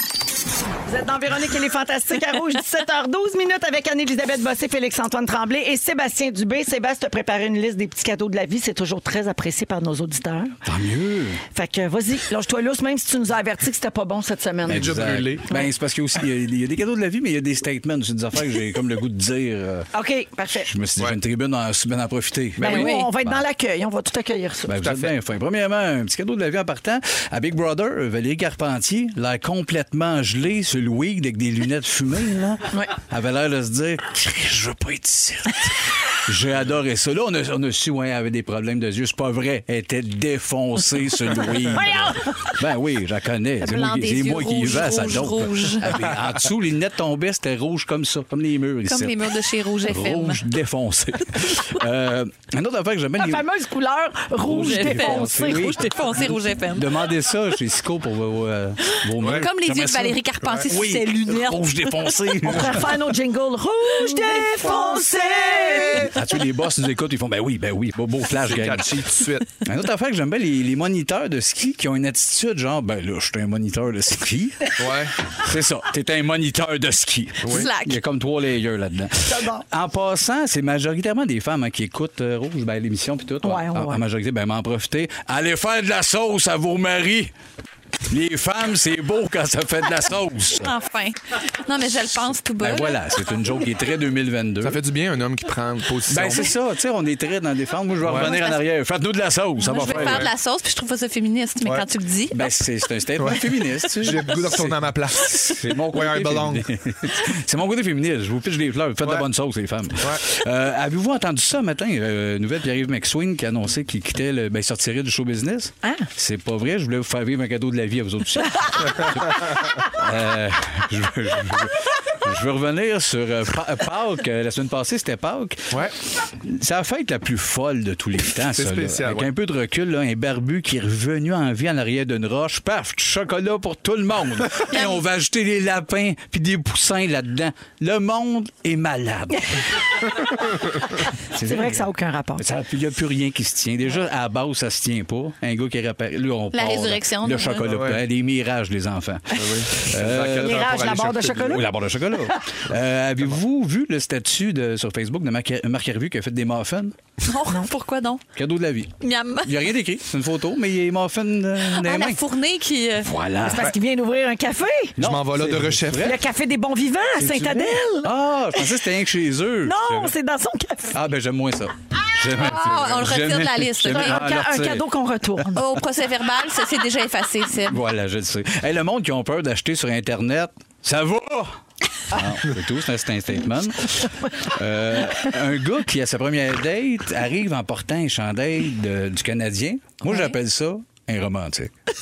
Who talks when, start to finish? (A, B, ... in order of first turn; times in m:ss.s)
0:00.8-0:10.6 A
0:10.6-0:11.4 B
0:11.5-0:15.7 A
0:14.6-0:15.7 C
0:14.6-0:19.9 B
0:19.9-0:20.7 A
0:20.6-0:23.4 B
0:22.6-0:24.7 A
0:22.6-0:23.1 D
0:24.7-0:49.3 B
0:24.8-0:25.1 C
0:41.8-0:42.1 D
0:41.8-0:42.2 A
0:43.6-0:46.0 D
0:48.8-0:50.4 D
0:49.9-0:53.4 B
0:53.2-0:55.9 A
0:54.4-1:02.9 B
0:54.5-0:57.1 D
0:59.2-0:59.5 C
0:59.3-1:02.6 D
1:02.4-1:06.1 A
1:04.0-1:04.4 D
1:06.0-1:09.0 B
1:08.3-1:09.5 C
1:09.6-1:27.3 B
1:14.8-1:15.1 C
1:17.4-1:17.7 C
1:17.5-1:18.0 D
1:19.3-1:19.6 A
1:23.4-1:24.0 A
1:28.1-1:30.7 B
1:30.6-1:33.0 D
1:32.6-1:34.8 B
1:34.6-1:36.5 C
1:36.1-1:40.3 B
1:38.0-1:38.4 C
1:38.1-1:38.6 D
1:39.6-1:42.5 D
1:39.8-1:40.3 C
1:41.6-1:41.9 C
1:42.3-2:05.8 B
1:43.2-1:46.7 C
1:55.8-1:56.1 A
2:06.3-2:20.0 B
2:08.3-2:09.3 C
2:14.7-2:15.0 D
2:21.3-2:21.9 B
2:21.5-2:22.4 A
2:22.4-2:36.9 B
2:26.5-2:27.7 D
2:27.6-2:28.0 C
2:29.3-2:31.6 C
2:30.4-2:31.7 A
2:37.2-2:38.2 D
2:38.3-2:42.2 B
2:39.0-2:39.6 D
2:41.6-2:43.1 D
2:43.0-2:43.7 B
2:43.4-2:45.0 A
2:45.0-2:46.2 B
2:45.0-2:46.2 C
2:46.0-2:48.7 A
2:47.2-2:50.1 B
2:49.6-2:51.0 A
2:50.9-2:54.8 B
2:52.3-2:54.4 D
2:53.9-2:55.6 A
2:55.5-2:57.8 D
2:57.7-3:01.6 B
3:02.1-3:11.7 B